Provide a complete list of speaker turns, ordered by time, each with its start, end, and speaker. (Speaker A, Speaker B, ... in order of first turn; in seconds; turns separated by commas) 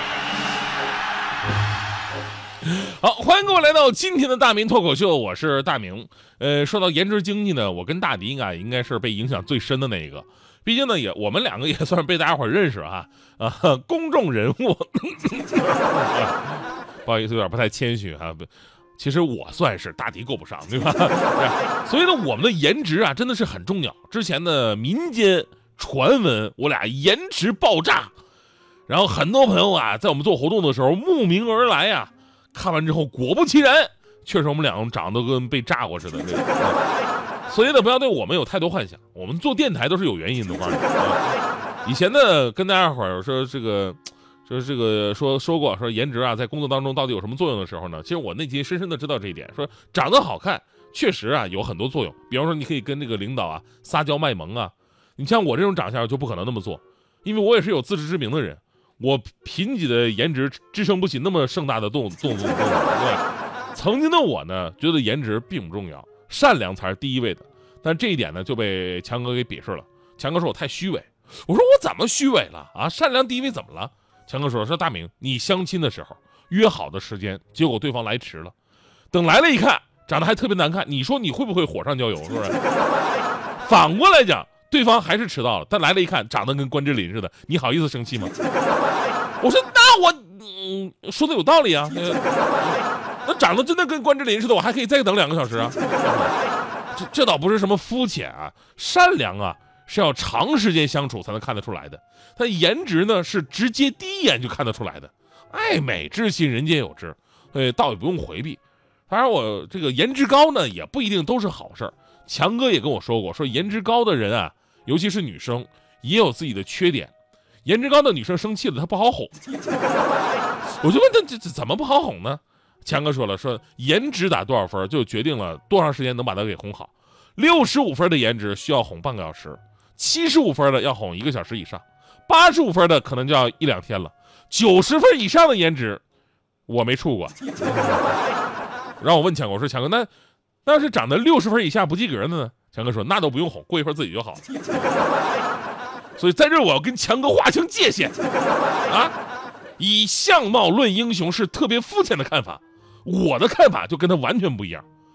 Speaker A: 2.6-28.1, Speaker A: 28.9-36.8, Speaker A: 37.5-41.2, Speaker A: 41.8-78.5, Speaker A: 79.1-82.6, Speaker A: 83.6-88.3, Speaker A: 89.4-96.3, Speaker A: 96.9-117.1, Speaker A: 117.7-119.3, Speaker A: 120.8-136.0, Speaker A: 136.7-137.4, Speaker A: 139.0-140.1, Speaker A: 140.7-144.5, Speaker A: 146.2-148.2, Speaker A: 148.9-149.2, Speaker A: 149.8-154.8